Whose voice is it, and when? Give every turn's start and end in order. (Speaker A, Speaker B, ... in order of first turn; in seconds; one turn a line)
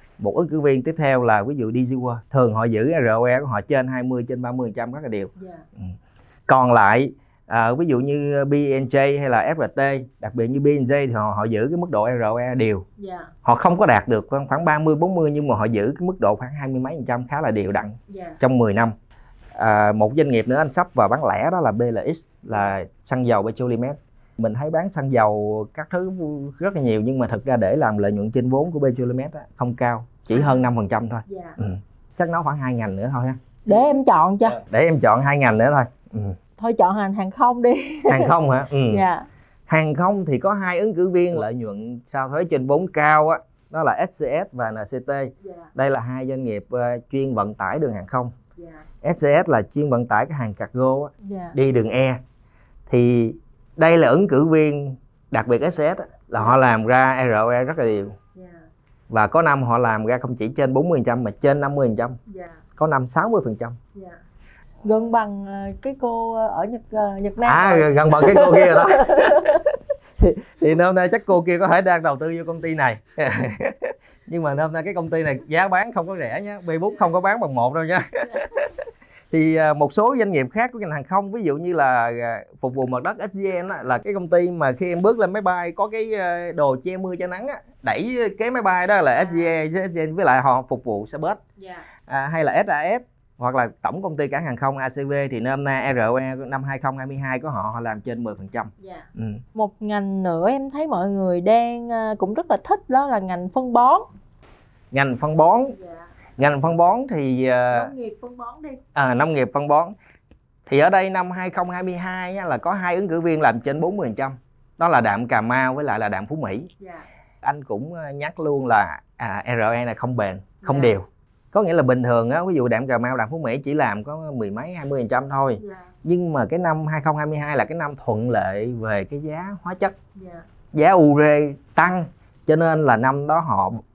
Speaker A: 0.2-5.9
Speaker B: 5.4-5.6
Speaker A: 6.5-12.8
Speaker B: 13.0-13.3
Speaker A: 13.4-18.9
Speaker B: 18.1-18.4
Speaker A: 19.5-33.4
Speaker B: 31.3-31.6
Speaker B: 33.6-34.6
Speaker A: 34.5-36.4
Speaker B: 36.6-38.3
Speaker A: 38.1-39.0
Speaker B: 38.9-39.3
Speaker A: 39.7-48.3
Speaker B: 48.6-48.8
Speaker A: 49.0-52.2
Speaker B: 51.2-51.5
Speaker A: 52.9-58.1
Speaker B: 58.3-58.6
Speaker A: 59.1-62.2
Speaker B: 62.3-62.6
Speaker A: 62.8-63.8
Speaker B: 64.8-69.7
Speaker A: 67.4-78.7
Speaker A: 79.3-91.4
Speaker B: 89.2-89.5
Speaker B: 91.6-91.8
Speaker A: 92.1-99.4
Speaker B: 98.8-104.1
Speaker A: 104.9-105.8
Speaker B: 105.7-106.1
Speaker A: 106.4-107.9
Speaker B: 107.7-108.8
Speaker A: 108.9-109.9
Speaker A: 110.7-116.7
Speaker B: 116.8-117.0
Speaker A: 117.4-129.9
Speaker B: 120.6-120.9
Speaker B: 125.6-125.9
Speaker B: 130.2-130.4
Speaker A: 130.7-133.8